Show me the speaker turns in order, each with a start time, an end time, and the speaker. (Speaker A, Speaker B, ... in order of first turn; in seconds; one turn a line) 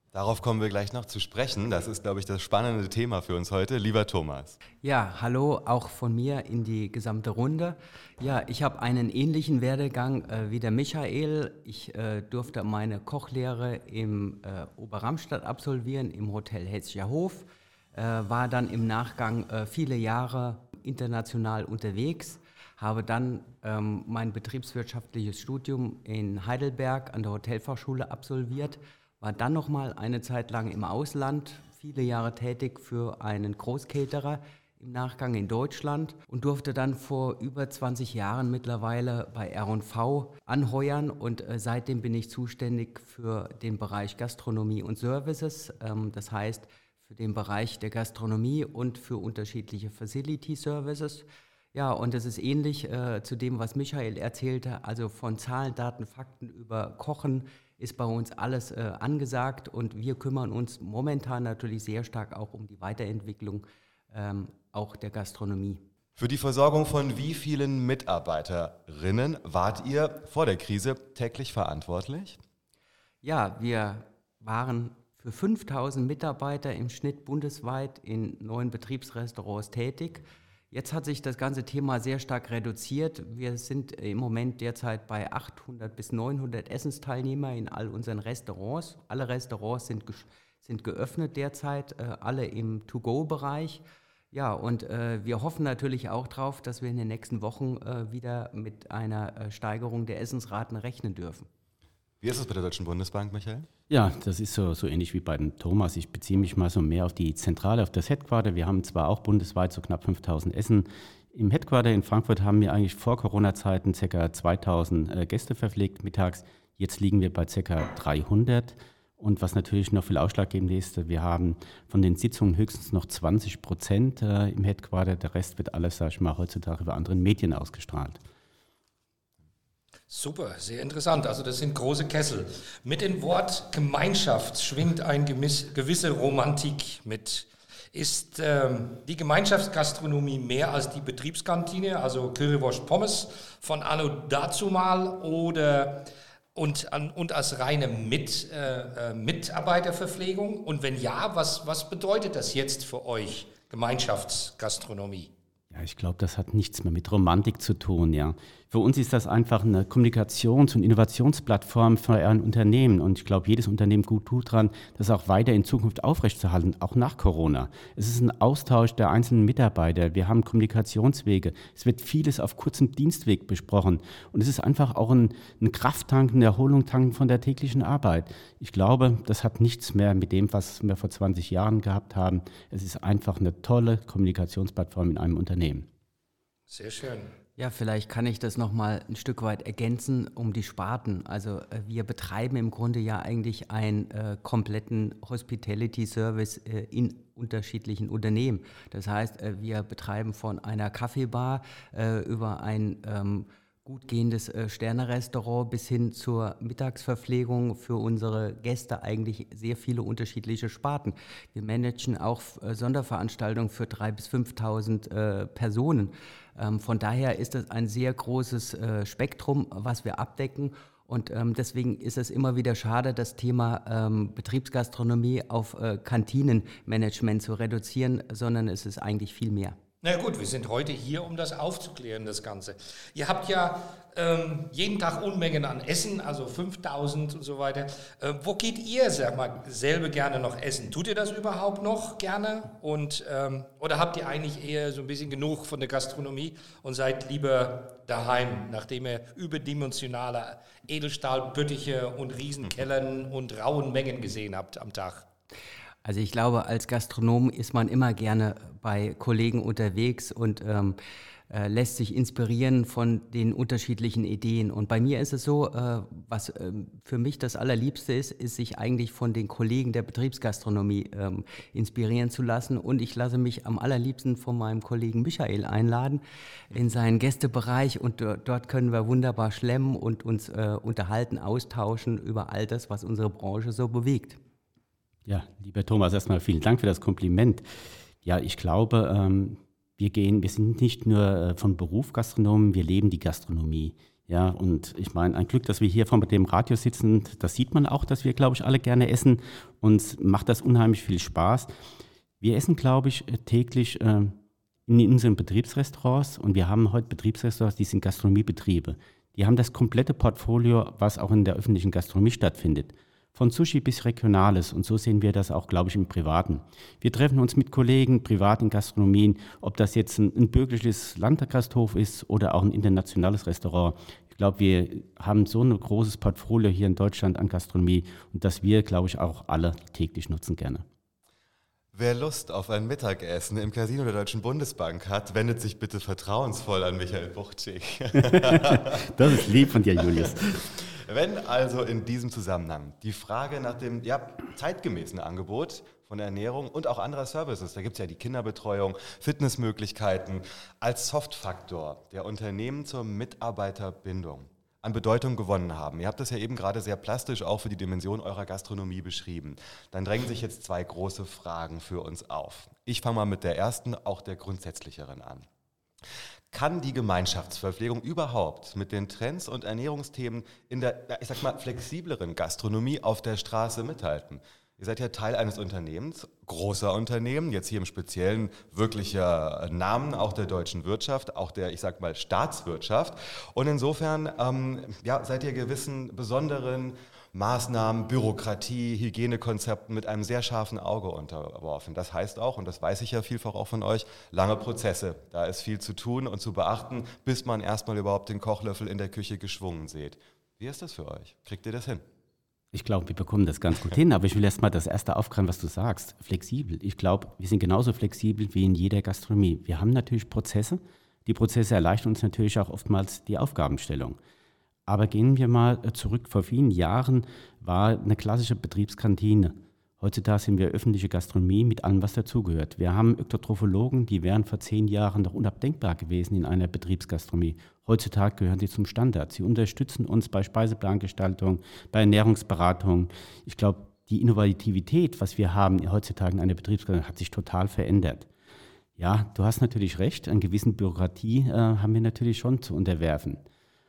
Speaker A: 0.1-4.6
Speaker B: 4.8-65.8
Speaker A: 66.2-72.4
Speaker B: 73.2-101.5
Speaker A: 102.2-103.7
Speaker C: 103.9-128.2
Speaker D: 130.1-155.3
Speaker C: 155.7-185.9
Speaker D: 186.7-187.3
Speaker B: 187.6-229.8
Speaker D: 230.0-255.3
Speaker B: 256.1-261.0
Speaker B: 261.5-284.4
Speaker C: 285.3-287.6
Speaker C: 288.2-301.7
Speaker C: 302.4-330.9
Speaker A: 331.9-339.4
Speaker C: 338.2-340.7
Speaker A: 340.2-365.5
Speaker A: 366.5-402.0
Speaker C: 402.7-414.2
Speaker C: 414.9-438.3
Speaker C: 439.0-443.4